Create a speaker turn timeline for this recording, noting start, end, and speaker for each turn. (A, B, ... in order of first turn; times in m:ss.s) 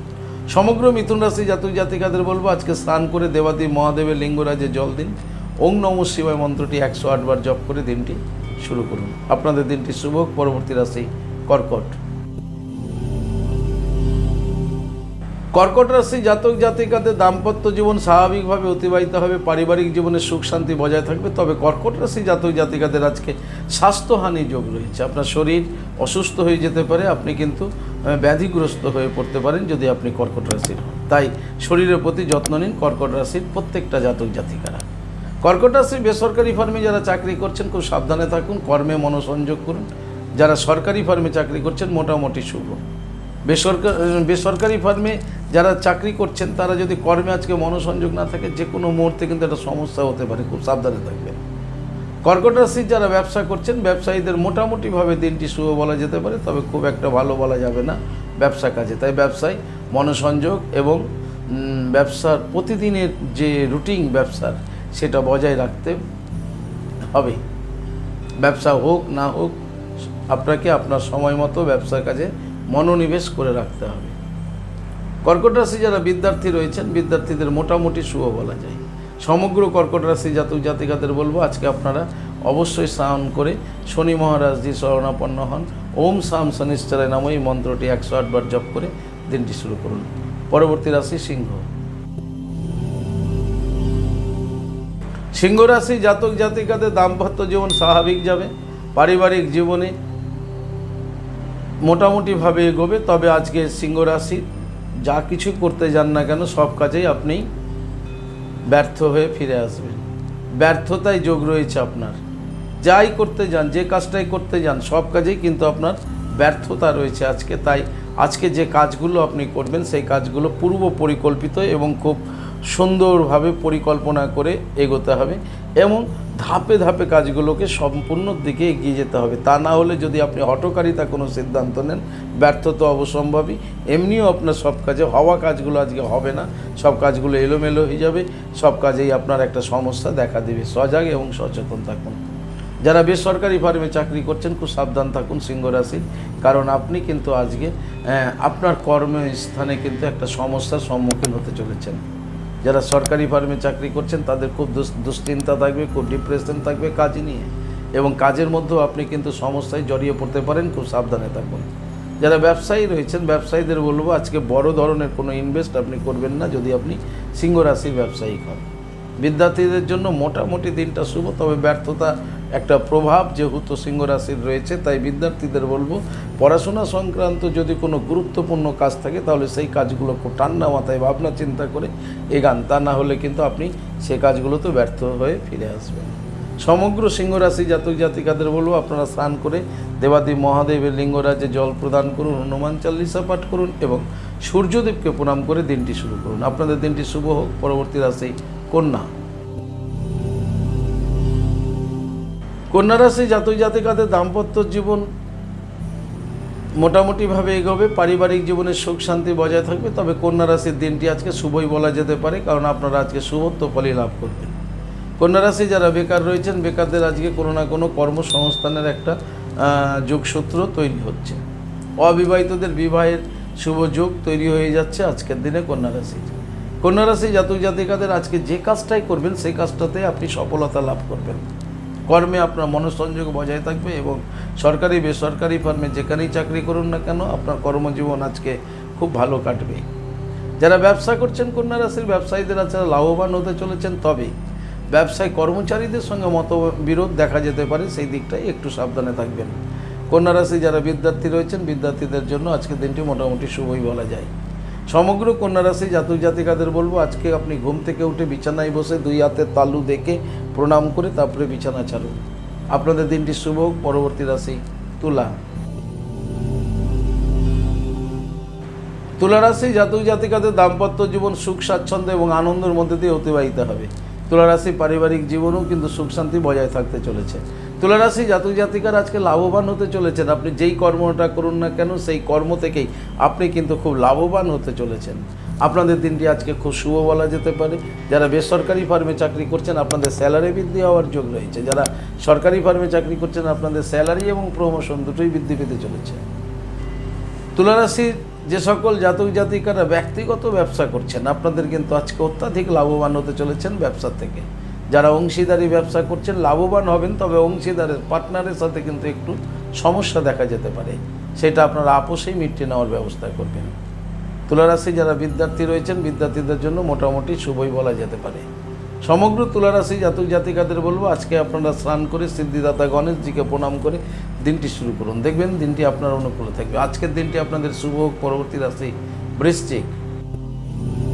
0:00.5-0:12.0 A
0:15.5-0:34.9 A
0:35.4-0:39.9 A
0:40.4-0:42.8 A
0:43.5-0:51.4 A
0:52.2-1:06.0 A
1:07.1-1:07.4 A
1:08.4-1:09.6 A
1:10.3-1:14.2 A
1:15.2-1:31.7 A
1:35.4-1:39.9 A
1:41.8-1:44.5 A
1:45.0-1:47.5 A
1:48.7-1:50.0 A
1:50.6-1:52.2 A
1:52.8-2:22.2 A
2:22.8-2:32.0 A
2:32.6-2:41.7 A
2:42.2-2:48.7 A
2:49.2-3:19.1 A
3:22.7-3:25.1 A
3:26.8-3:34.6 A
3:35.2-3:41.4 A
3:42.0-3:51.4 A
3:52.1-3:59.8 A
4:00.6-4:04.3 A
4:04.9-4:09.6 A
4:10.1-4:14.3 A
4:14.9-4:22.2 A
4:22.7-4:25.3 A
4:29.2-4:56.2 A
4:57.6-5:13.8 A
5:14.5-5:18.5 A
5:19.0-5:30.0 A